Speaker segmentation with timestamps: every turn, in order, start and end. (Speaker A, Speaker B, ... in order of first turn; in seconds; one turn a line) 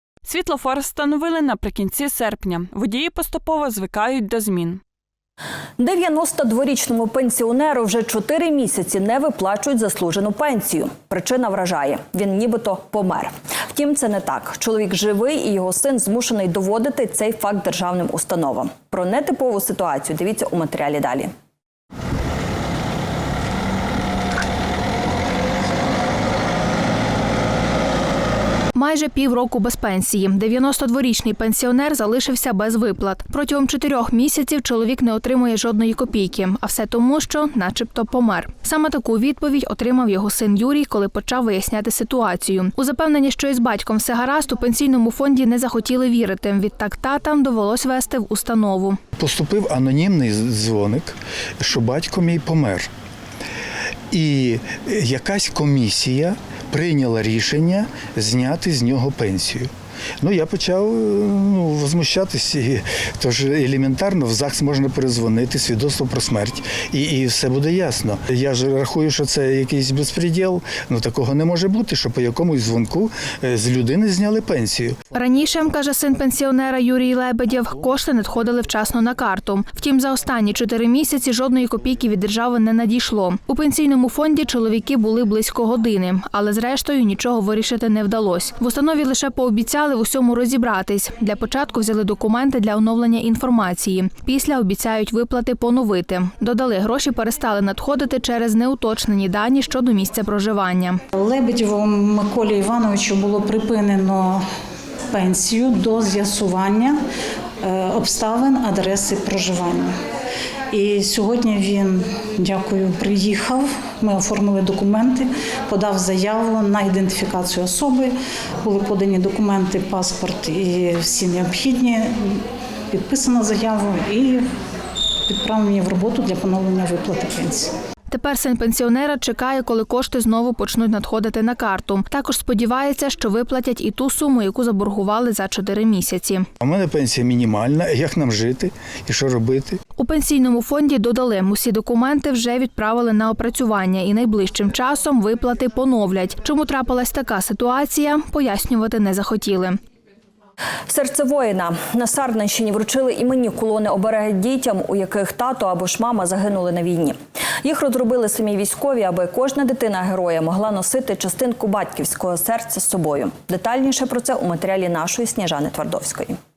Speaker A: 0.2-4.8
Speaker B: 5.8-21.3
Speaker C: 28.8-49.0
Speaker D: 49.2-52.9
Speaker D: 54.1-59.7
Speaker D: 60.2-75.0
Speaker C: 75.1-101.0
Speaker E: 101.2-104.5
Speaker E: 105.1-107.0
Speaker E: 107.6-110.0
Speaker E: 110.7-124.5
Speaker E: 125.3-127.7
Speaker C: 128.1-136.5
Speaker D: 136.6-139.8
Speaker C: 140.0-149.8
Speaker B: 150.9-166.4